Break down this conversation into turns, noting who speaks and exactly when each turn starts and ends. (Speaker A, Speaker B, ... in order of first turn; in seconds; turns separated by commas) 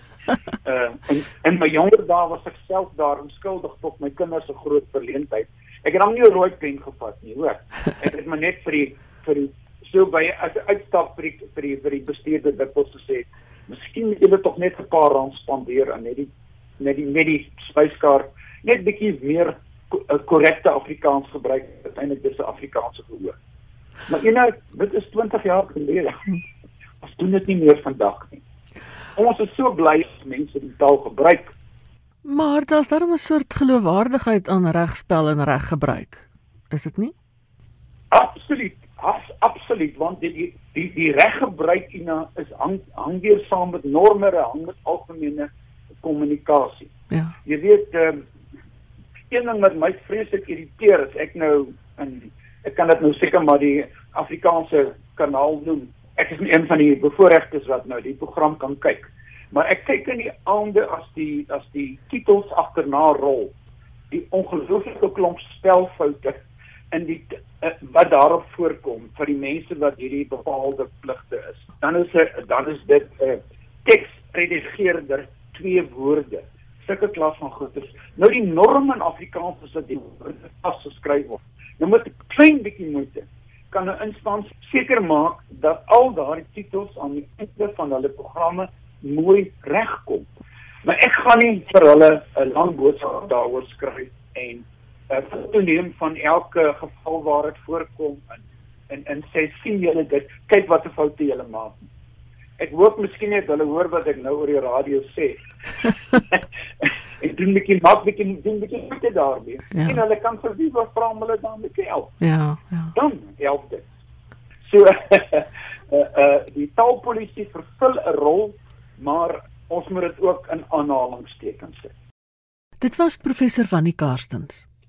Speaker A: 0.7-23.4, Speaker A: 24.1-26.4, Speaker A: 27.0-28.4, Speaker A: 29.2-31.5, Speaker B: 32.2-37.1, Speaker A: 38.1-45.5, Speaker A: 46.0-46.9, Speaker A: 47.5-48.2, Speaker A: 49.3-63.5, Speaker A: 64.1-66.4, Speaker A: 66.9-90.3, Speaker A: 90.8-101.8, Speaker A: 102.6-105.4, Speaker A: 106.2-112.2, Speaker B: 109.8-110.0, Speaker B: 112.2-112.9, Speaker A: 112.9-113.9, Speaker A: 114.7-121.9, Speaker B: 122.8-124.7